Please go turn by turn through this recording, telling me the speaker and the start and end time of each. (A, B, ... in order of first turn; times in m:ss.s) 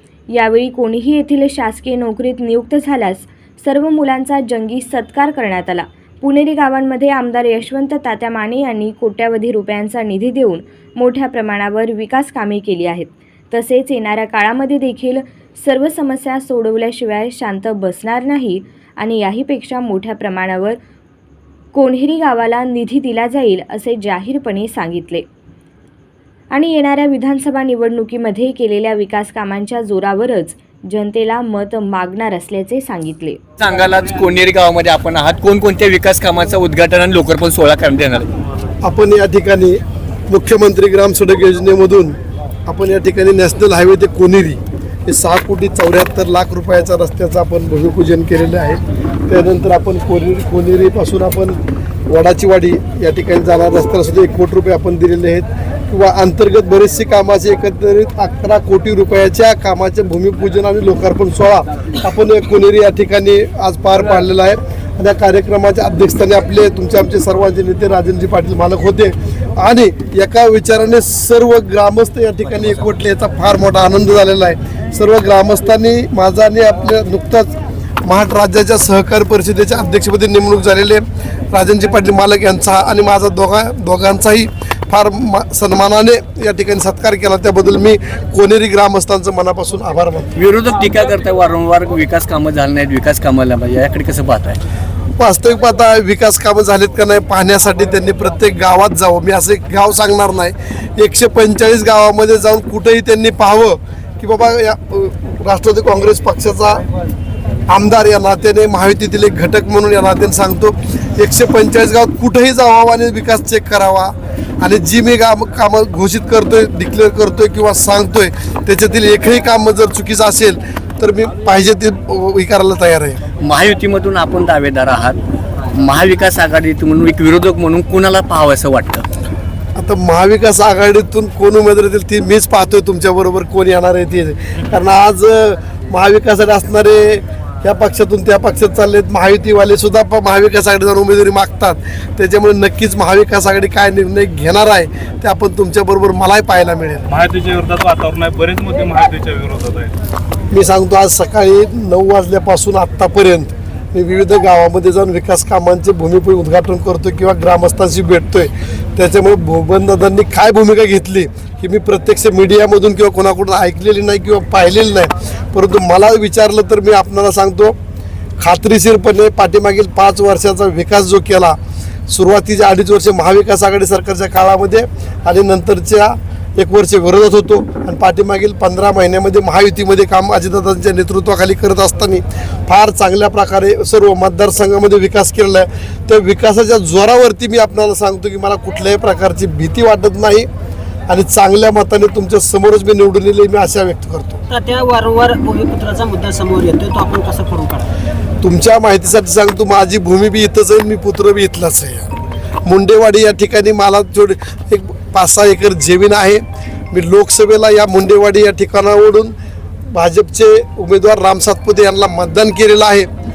0:00.3-0:20.8 A
0:21.7-0:25.3 A
0:26.5-0:33.4 A
0:33.6-0:38.3 B
0:38.8-0:39.8 C
0:40.3-1:17.5 C
1:18.0-1:30.3 C
1:30.4-1:34.6 B
1:35.2-1:46.8 C
1:47.7-2:03.2 C
2:03.4-2:05.2 B
2:05.7-2:09.1 B
2:09.8-2:27.1 C
2:27.1-2:29.9 D
2:30.5-2:47.8 C
2:48.4-2:51.6 C
2:52.1-3:10.5 C
3:11.1-3:14.4 C
3:14.5-3:17.9 E
3:18.4-3:22.1 C
3:22.7-3:29.3 C
3:29.9-3:33.1 C